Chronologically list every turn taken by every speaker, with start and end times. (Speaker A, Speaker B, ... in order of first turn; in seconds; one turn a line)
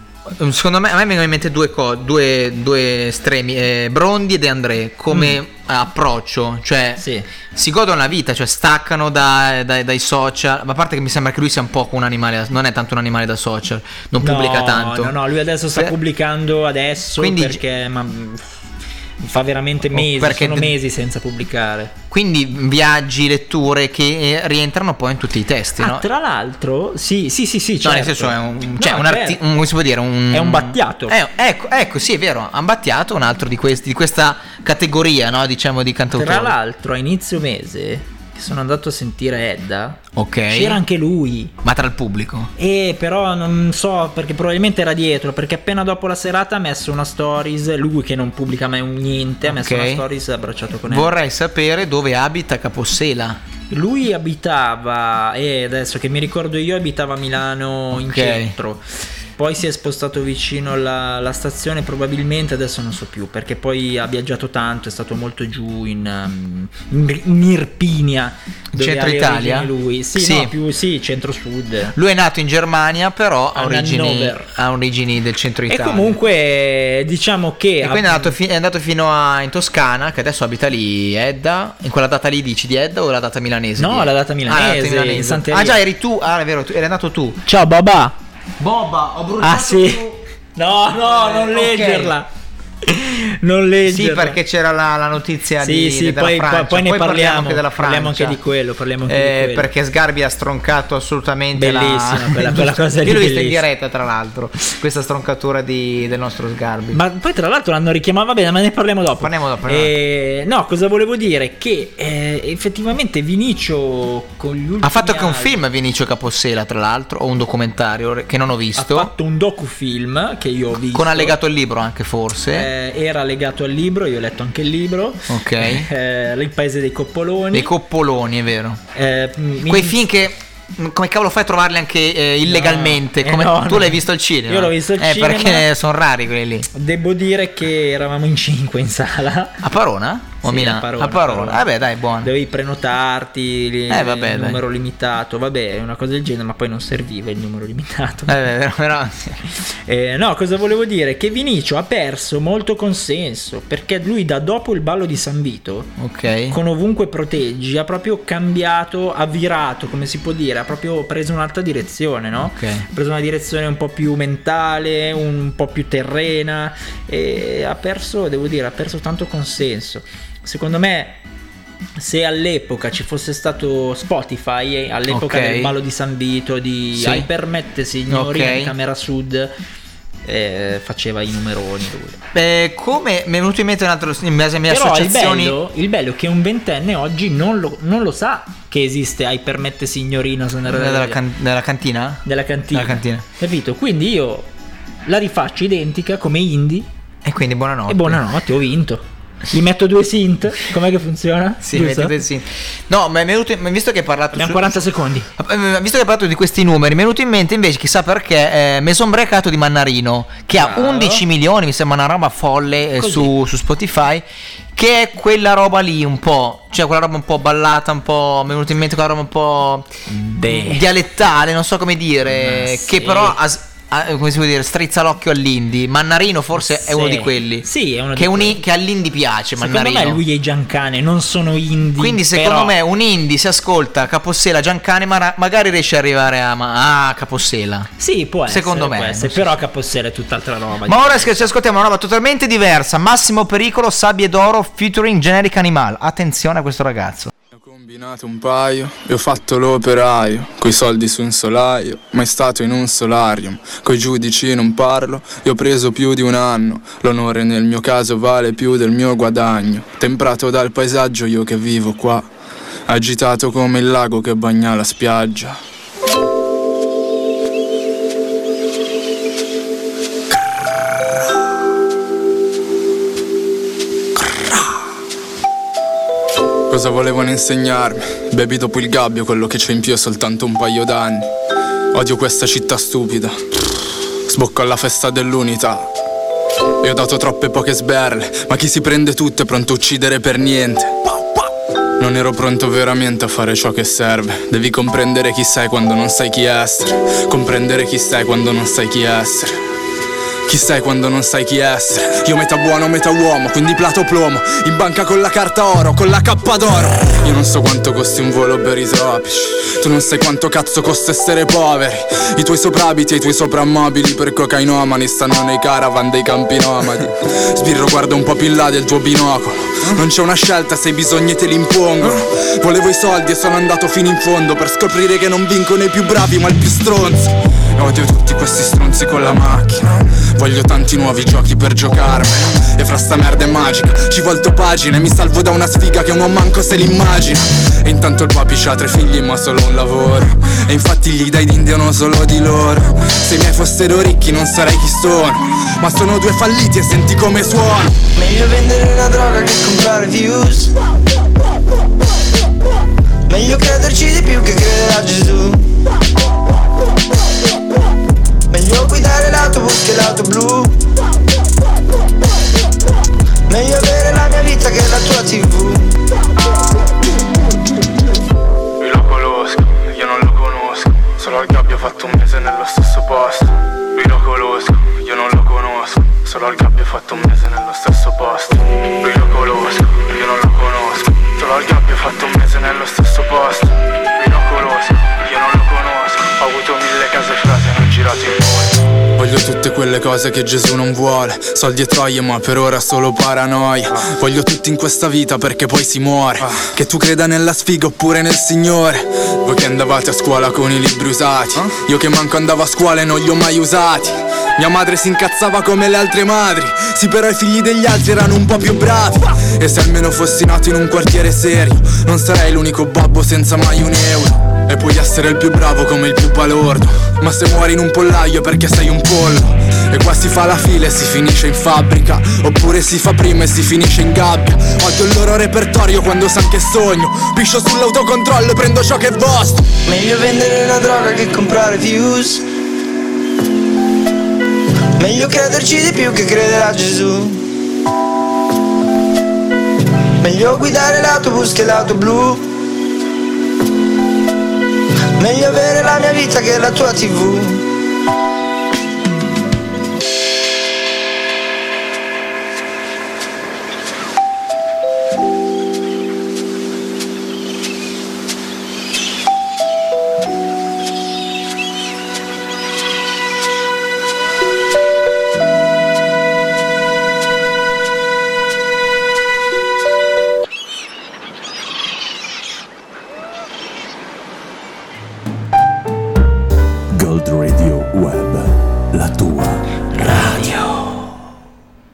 Speaker A: 0.3-15.2
Speaker B: 5.1-5.4
Speaker B: 7.0-7.3
Speaker B: 14.2-18.5
Speaker A: 17.2-17.6
Speaker B: 19.2-21.9
Speaker A: 19.9-20.8
Speaker A: 22.1-26.1
Speaker B: 25.8-29.4
Speaker A: 27.8-36.5
Speaker B: 30.3-31.1
Speaker B: 36.1-41.5
Speaker A: 40.1-40.8
Speaker A: 41.6-42.5
Speaker B: 42.6-51.1
Speaker A: 49.5-50.0
Speaker A: 50.9-53.4
Speaker B: 53.7-58.8
Speaker A: 57.9-58.5
Speaker B: 59.4-72.0
Speaker A: 68.7-70.5
Speaker A: 72.0-76.2
Speaker B: 73.5-74.5
Speaker B: 75.7-78.4
Speaker A: 77.8-87.4
Speaker B: 83.8-85.8
Speaker B: 87.5-88.2
Speaker A: 88.6-90.2
Speaker B: 89.4-90.0
Speaker B: 90.6-92.3
Speaker A: 91.0-92.2
Speaker B: 92.8-94.4
Speaker A: 93.9-98.4
Speaker B: 95.6-99.7
Speaker A: 99.1-107.0
Speaker B: 101.5-103.6
Speaker B: 106.9-115.6
Speaker A: 109.2-109.9
Speaker A: 114.8-119.1
Speaker B: 118.8-121.4
Speaker A: 120.9-122.7
Speaker B: 122.5-127.7
Speaker A: 125.3-125.9
Speaker A: 127.5-128.8
Speaker B: 128.9-130.0
Speaker A: 129.7-136.7
Speaker B: 132.4-135.7
Speaker B: 136.7-139.6
Speaker A: 139.6-142.3
Speaker B: 140.4-141.7
Speaker B: 142.2-148.4
Speaker A: 143.9-144.6
Speaker A: 148.3-149.4
Speaker B: 149.9-155.9
Speaker A: 156.0-156.6
Speaker B: 156.5-171.2
Speaker A: 162.4-162.9
Speaker B: 172.0-179.5
Speaker A: 175.1-175.8
Speaker A: 177.0-177.3
Speaker A: 178.1-178.7
Speaker B: 180.2-182.2
Speaker A: 182.3-185.6
Speaker B: 184.7-191.2
Speaker A: 190.7-193.2
Speaker B: 192.2-194.5
Speaker B: 195.1-196.9
Speaker A: 197.2-198.2
Speaker B: 197.9-202.2
Speaker A: 201.6-204.7
Speaker B: 204.3-205.3
Speaker A: 205.4-214.2
Speaker B: 210.6-211.2
Speaker B: 213.0-213.3
Speaker A: 214.8-230.2
Speaker B: 220.1-220.8
Speaker B: 222.3-223.4
Speaker B: 226.6-228.6
Speaker B: 229.6-232.8
Speaker A: 232.0-237.9
Speaker B: 238.0-241.5
Speaker A: 238.5-239.6
Speaker A: 240.9-247.3
Speaker C: 247.5-262.3
Speaker C: 262.9-265.6
Speaker C: 276.7-281.3
Speaker C: 281.9-283.4
Speaker C: 284.3-285.9
Speaker C: 286.8-291.4
Speaker C: 292.0-299.6
Speaker C: 300.5-348.0
Speaker D: 348.1-350.7
Speaker D: 353.3-355.7
Speaker D: 358.5-360.8
Speaker D: 363.5-365.9
Speaker C: 368.8-429.7
Speaker D: 429.9-432.4
Speaker D: 435.0-437.4
Speaker D: 440.2-442.5
Speaker D: 445.2-447.6
Speaker E: 477.0-479.6
Speaker B: 479.9-481.1
Speaker A: 480.0-480.4